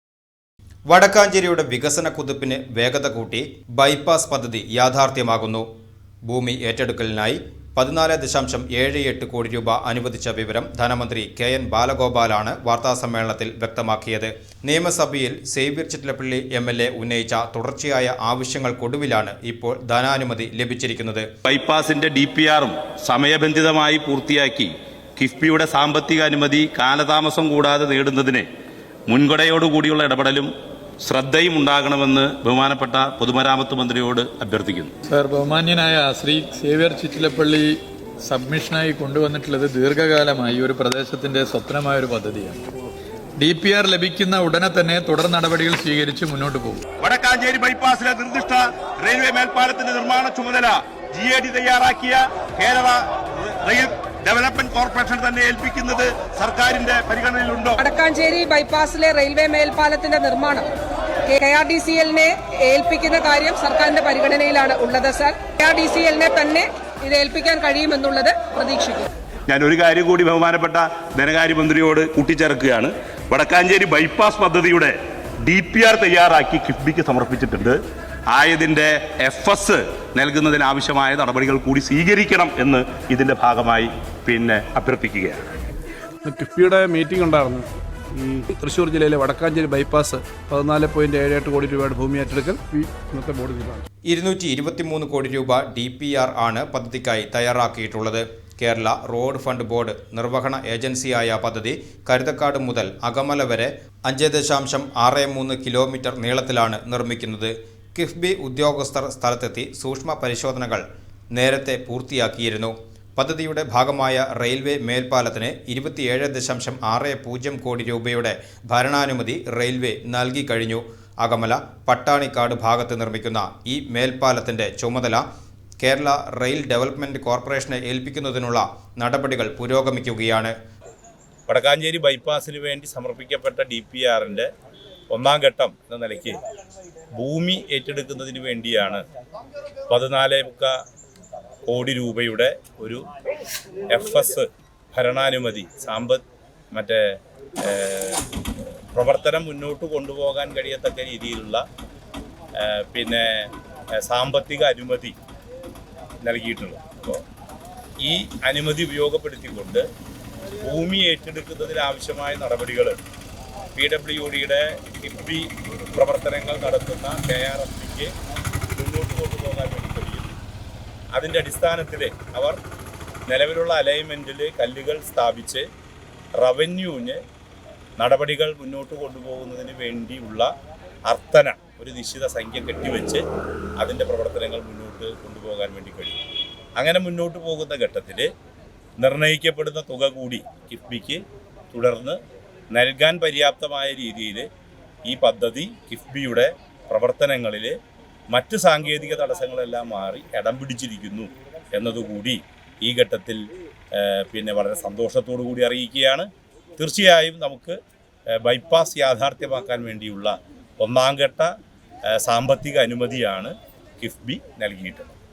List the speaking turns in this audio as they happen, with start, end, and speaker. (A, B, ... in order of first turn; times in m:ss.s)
0:00.9-0:05.6 A
0:06.3-0:21.3 A
0:21.4-0:28.5 B
0:29.1-0:34.9 B
0:35.2-0:37.7 C
0:38.3-0:42.6 C
0:43.4-0:46.8 C
0:47.0-0:57.8 B
0:57.8-1:00.7 D
1:01.3-1:09.1 D
1:09.5-1:17.8 B
1:18.3-1:25.6 B
1:26.2-1:33.8 E
1:34.1-1:50.8 A
1:51.3-2:05.2 A
2:05.8-2:10.5 A
2:11.5-2:14.5 B
2:15.1-2:16.4 B
2:17.1-2:19.0 B
2:19.9-2:20.7 B
2:21.7-2:23.0 B
2:23.9-2:26.2 B
2:26.7-2:27.0 B
2:27.6-2:28.2 B
2:28.9-2:31.6 B
2:32.6-2:33.4 B
2:34.0-2:35.2 B
2:36.2-2:37.2 B
2:38.0-2:39.8 B
2:40.6-2:43.0 B
2:43.8-2:48.1 B
2:48.7-2:50.3 B
2:51.1-2:52.6 B
2:53.3-2:55.6 B
2:56.4-2:57.2 B
2:58.0-3:00.5 B
3:01.1-3:03.2 B
3:03.8-3:06.2 B
3:06.8-3:08.3 B
3:09.0-3:11.2 B
3:11.7-3:12.2 B
3:12.7-3:14.5 B
3:15.1-3:17.8 B
3:18.3-3:23.4 B
3:24.0-3:27.8 B
3:28.4-3:31.5 B
3:32.1-3:35.1 B